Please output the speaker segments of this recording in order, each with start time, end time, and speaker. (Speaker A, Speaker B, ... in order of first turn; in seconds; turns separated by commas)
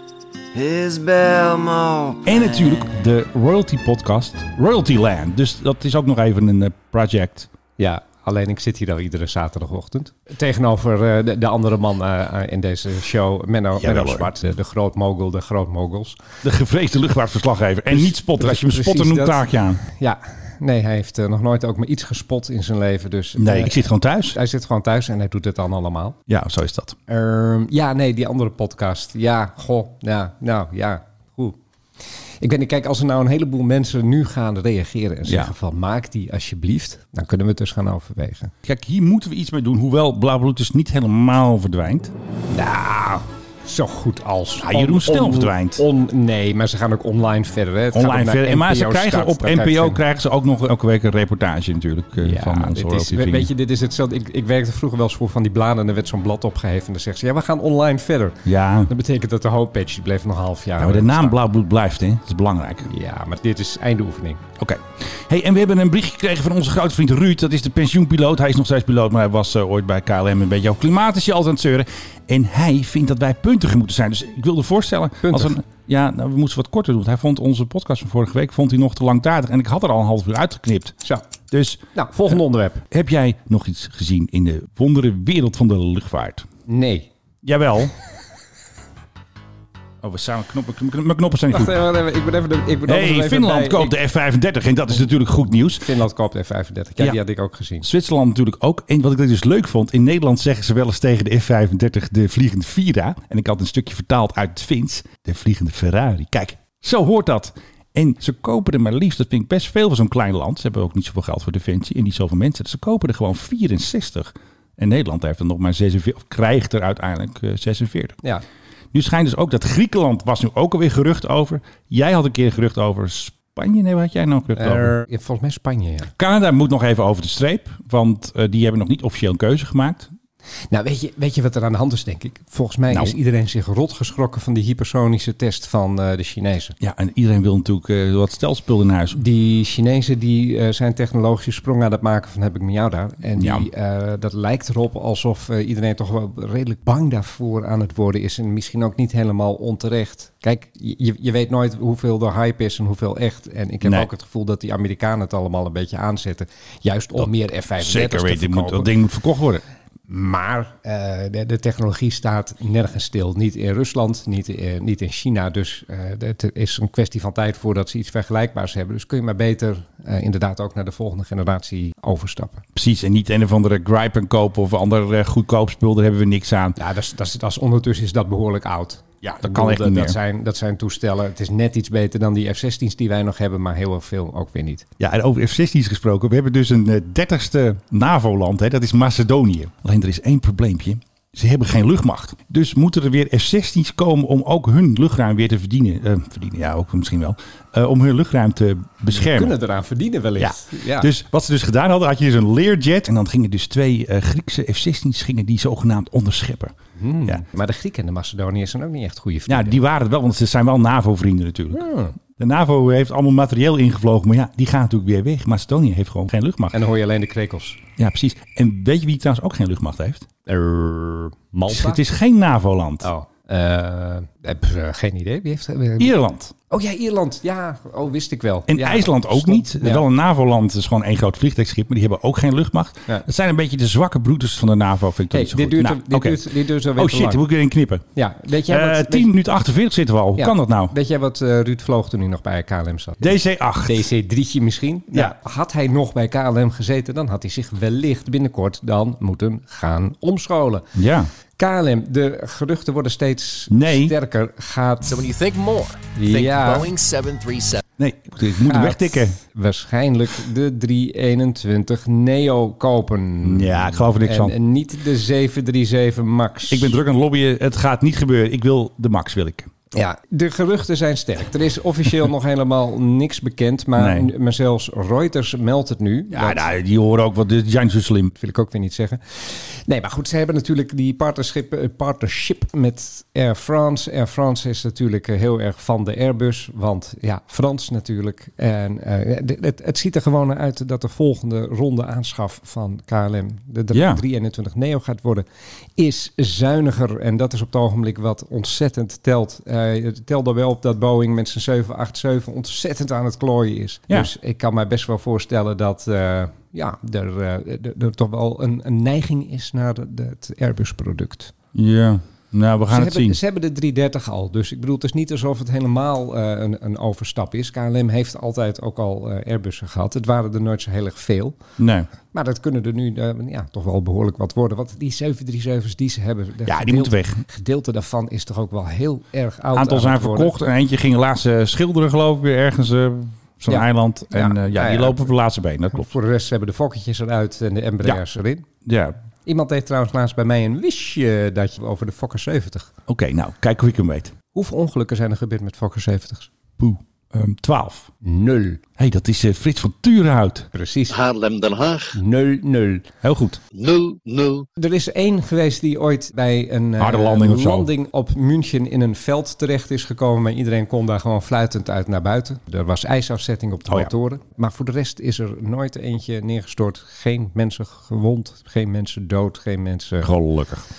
Speaker A: 0.5-2.9, Speaker B: 2.2-7.5, Speaker C: 7.8-16.2, Speaker B: 13.8-14.3, Speaker B: 16.4-19.8, Speaker C: 17.9-26.2, Speaker B: 23.4-24.4, Speaker B: 26.3-27.0, Speaker C: 27.1-31.6, Speaker C: 32.4-38.5, Speaker B: 35.3-35.5, Speaker B: 38.6-42.1, Speaker C: 42.5-50.0, Speaker B: 44.6-45.9, Speaker B: 47.9-53.5, Speaker C: 52.2-61.4, Speaker B: 58.5-58.9, Speaker B: 60.8-62.9, Speaker C: 62.9-64.4, Speaker B: 64.6-81.8, Speaker C: 75.2-75.6, Speaker C: 82.0-82.8, Speaker B: 82.9-86.5, Speaker C: 86.7-87.1, Speaker B: 87.4-87.9, Speaker B: 90.0-91.8, Speaker C: 91.5-94.0, Speaker B: 92.9-95.9, Speaker C: 95.8-97.9, Speaker B: 97.8-118.2, Speaker B: 118.9-124.9, Speaker C: 124.5-126.1, Speaker B: 126.2-130.1, Speaker C: 130.7-136.8, Speaker B: 136.8-139.2, Speaker C: 139.1-158.9, Speaker B: 143.4-143.7, Speaker B: 153.8-154.1, Speaker B: 157.2-159.6, Speaker C: 160.1-172.6, Speaker B: 172.8-176.8, Speaker C: 176.8-184.9, Speaker B: 179.2-180.2, Speaker B: 185.0-199.6, Speaker C: 199.1-201.1, Speaker B: 200.4-206.8, Speaker C: 207.0-209.8, Speaker B: 209.5-216.8, Speaker C: 211.7-212.2, Speaker C: 216.7-217.8, Speaker B: 218.0-220.3, Speaker C: 220.5-222.0, Speaker B: 221.7-223.1, Speaker C: 223.0-226.1, Speaker B: 226.0-226.5, Speaker C: 226.7-230.1, Speaker B: 228.7-238.1, Speaker C: 235.3-237.4, Speaker C: 238.2-239.3, Speaker B: 238.7-240.9, Speaker C: 240.4-250.9, Speaker B: 243.2-244.1, Speaker B: 250.9-251.3, Speaker C: 251.6-255.1, Speaker B: 253.7-254.2, Speaker D: 255.1-257.8, Speaker C: 256.2-256.9, Speaker B: 258.0-259.4, Speaker C: 258.6-267.0, Speaker B: 263.4-264.6, Speaker B: 266.7-269.7, Speaker C: 269.9-276.7, Speaker B: 274.0-274.3, Speaker B: 276.3-278.3, Speaker C: 278.4-295.4, Speaker B: 293.9-294.2, Speaker C: 296.0-311.5, Speaker B: 311.7-313.4, Speaker C: 312.9-321.6, Speaker B: 321.8-322.1, Speaker C: 322.3-330.6, Speaker B: 326.7-327.4, Speaker B: 329.7-336.1, Speaker C: 333.7-335.3, Speaker C: 335.9-338.7, Speaker B: 338.9-339.1, Speaker C: 339.4-342.9, Speaker B: 343.1-344.3, Speaker C: 344.5-346.5, Speaker B: 346.8-348.1, Speaker C: 348.2-348.8, Speaker B: 349.0-350.7, Speaker C: 350.7-351.2, Speaker E: 351.1-352.2, Speaker C: 352.1-353.1, Speaker B: 353.2-353.6, Speaker E: 353.7-354.7, Speaker C: 354.8-370.4, Speaker B: 357.0-357.9, Speaker B: 370.2-370.9